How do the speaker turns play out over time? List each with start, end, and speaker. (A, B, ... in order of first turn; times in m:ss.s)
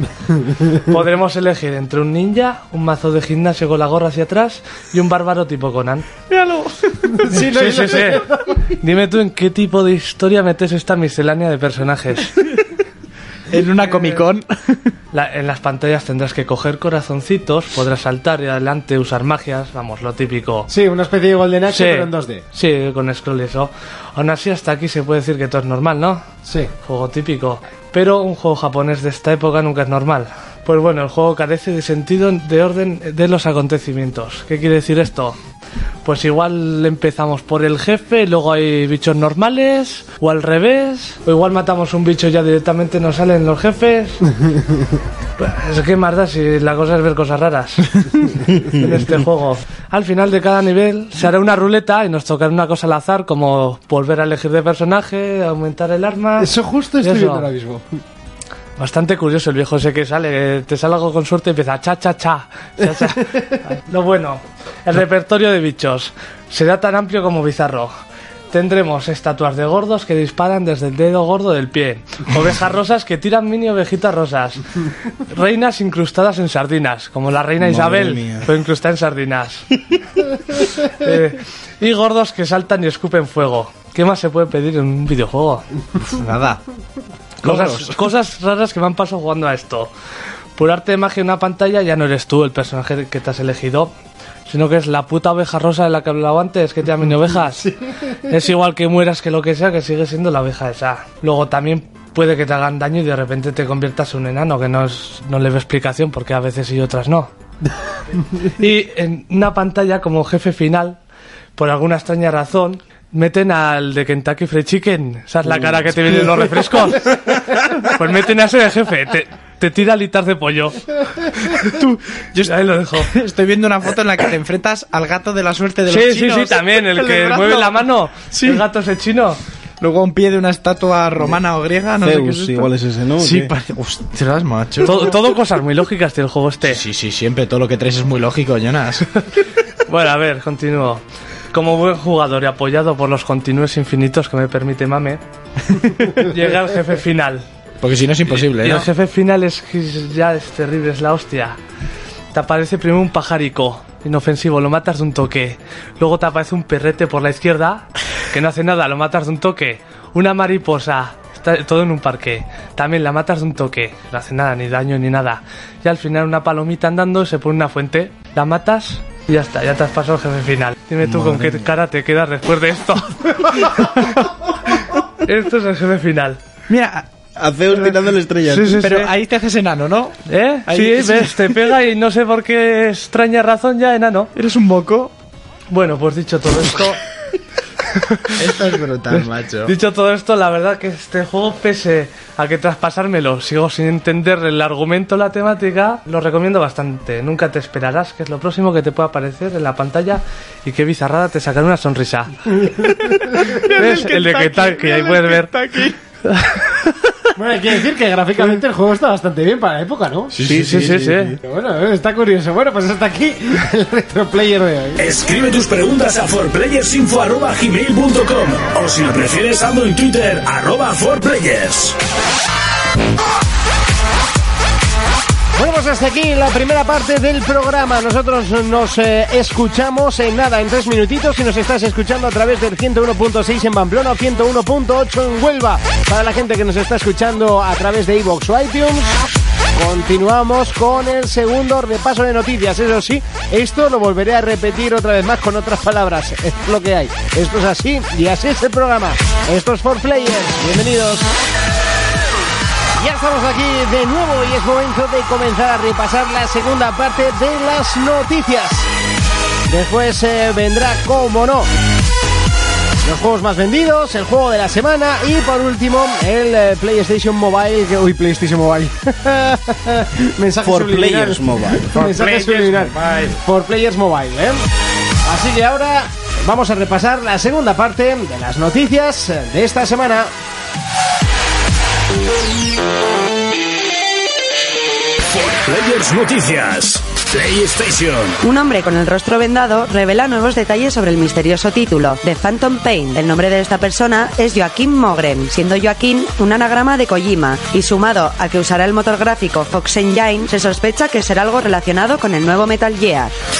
0:00.8-0:06.1 A
0:06.3-0:07.3 B
0:07.2-0:08.6 C
0:07.3-0:12.4 A
0:13.5-0:14.9 B
0:15.1-0:20.7 A
0:20.7-0:22.4 C
0:21.7-0:26.2 A
0:26.5-0:26.7 C
0:26.8-0:35.4 A
0:36.0-0:44.3 A
0:45.4-0:57.5 A
0:56.4-0:58.0 C
0:58.8-1:07.9 A
1:03.3-1:03.5 C
1:08.5-1:14.6 A
1:15.2-1:19.7 A
1:17.6-1:18.5 D
1:20.9-1:25.6 A
1:26.0-1:26.6 B
1:27.4-1:28.0 B
1:27.4-1:29.9 A
1:30.6-1:33.9 A
1:34.5-1:37.7 A
1:38.3-1:47.3 A
1:48.4-1:51.0 A
1:51.6-2:00.8 A
2:01.5-2:08.6 B
2:02.4-2:03.1 A
2:05.9-2:09.4 A
2:09.8-2:15.2 B
2:12.0-2:13.5 D
2:14.8-2:16.8 A
2:16.6-2:19.1 B
2:19.9-2:25.2 A
2:25.7-2:26.1 B
2:26.1-2:27.4 A
2:27.8-2:28.9 B
2:28.3-2:31.6 A
2:32.3-2:54.3 A
2:51.0-2:51.7 D
2:54.8-2:56.4 A
2:56.7-2:57.1 B
2:57.4-2:58.8 D
2:58.5-2:59.1 A
2:58.8-3:01.6 B
3:00.3-3:04.3 A
3:04.4-3:05.1 B
3:05.7-3:07.0 A
3:08.1-3:08.4 A
3:08.3-3:09.7 B
3:09.1-3:22.5 A
3:22.8-3:26.0 B
3:23.6-3:25.5 A
3:26.2-3:27.3 A
3:27.4-3:30.3 C
3:30.3-3:31.0 B
3:30.4-3:31.4 D
3:30.5-3:31.4 A
3:31.4-3:35.1 C
3:35.0-3:42.0 E
3:45.6-3:59.2 C
3:59.8-4:11.3 C
4:13.0-4:18.9 C
4:19.7-4:21.7 C
4:23.0-4:34.6 C
4:30.6-4:32.1 D
4:32.0-4:33.3 B
4:35.2-4:40.3 C
4:45.3-4:48.4 E
4:48.4-5:03.4 F